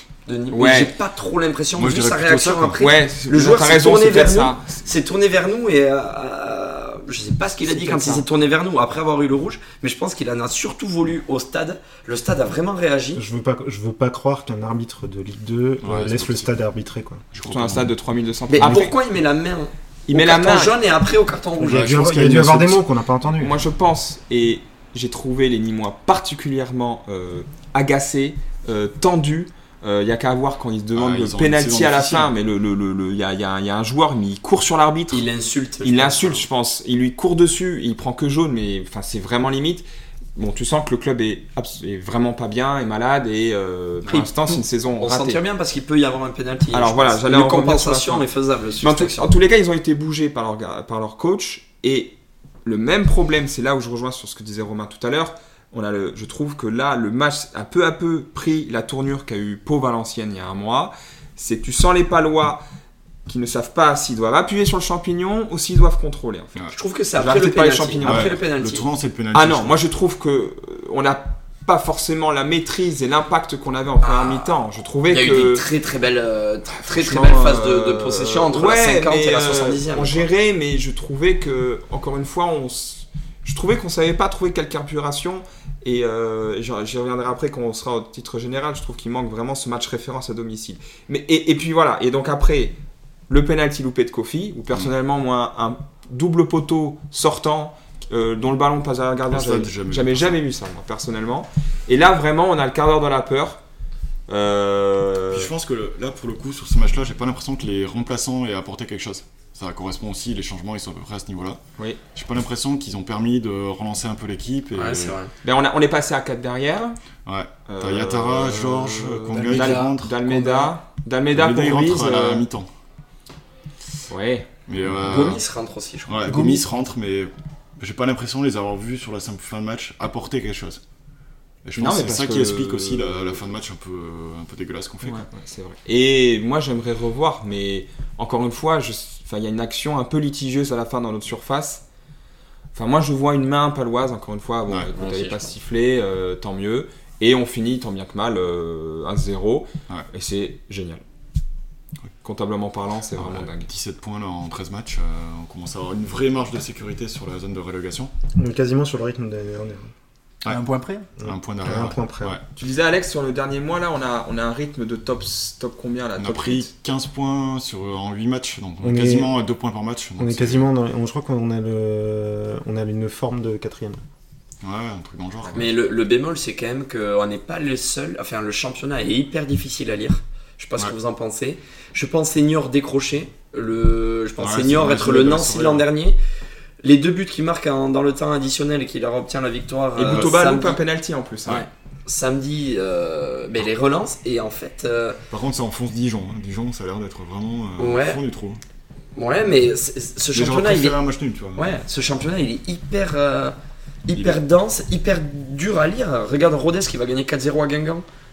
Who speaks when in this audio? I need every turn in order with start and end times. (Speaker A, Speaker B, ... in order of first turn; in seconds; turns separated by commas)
Speaker A: 0.3-13.2, Speaker B: 0.5-0.9, Speaker C: 1.8-2.8, Speaker B: 2.8-4.8, Speaker B: 7.7-8.2, Speaker D: 13.2-17.2, Speaker C: 15.8-16.5, Speaker C: 17.3-17.9, Speaker B: 17.5-18.9, Speaker A: 18.5-21.9, Speaker B: 20.1-20.8, Speaker D: 21.6-23.6, Speaker C: 21.6-22.8, Speaker B: 23.4-35.3, Speaker C: 30.9-32.3, Speaker A: 35.1-36.5, Speaker B: 35.8-45.4, Speaker A: 44.1-49.3, Speaker B: 46.7-48.3, Speaker B: 48.8-62.6, Speaker B: 63.3-66.6, Speaker A: 66.7-68.8, Speaker B: 67.2-68.4, Speaker C: 68.0-69.8, Speaker B: 69.3-75.7, Speaker A: 74.0-80.3, Speaker B: 76.8-92.8, Speaker B: 93.3-103.6, Speaker C: 99.3-100.4, Speaker B: 104.3-105.5, Speaker C: 105.3-111.6, Speaker C: 112.2-115.2, Speaker A: 114.8-115.3, Speaker B: 115.4-117.0, Speaker C: 117.3-120.2, Speaker B: 117.7-122.5, Speaker E: 119.3-120.7, Speaker C: 121.3-122.7, Speaker B: 124.1-124.5, Speaker C: 124.7-125.4, Speaker A: 125.0-126.2, Speaker C: 126.1-130.8, Speaker E: 126.3-126.6, Speaker C: 131.7-135.3, Speaker B: 131.8-133.4, Speaker B: 135.0-141.8, Speaker B: 142.7-151.0, Speaker A: 144.9-145.5, Speaker B: 152.2-153.7, Speaker C: 153.1-158.1, Speaker D: 158.4-159.9, Speaker E: 160.4-161.1, Speaker D: 161.2-162.4, Speaker C: 161.2-162.4, Speaker B: 162.6-166.7, Speaker C: 166.2-170.7, Speaker D: 168.8-169.3, Speaker D: 170.2-174.0, Speaker C: 174.6-175.7, Speaker B: 175.4-175.7, Speaker A: 175.5-186.2, Speaker C: 184.4-185.8, Speaker A: 186.8-190.8, Speaker B: 190.0-191.7, Speaker A: 191.5-195.2, Speaker C: 195.3-198.6, Speaker A: 197.8-198.2, Speaker A: 199.2-201.0, Speaker C: 200.3-201.8, Speaker A: 201.6-208.1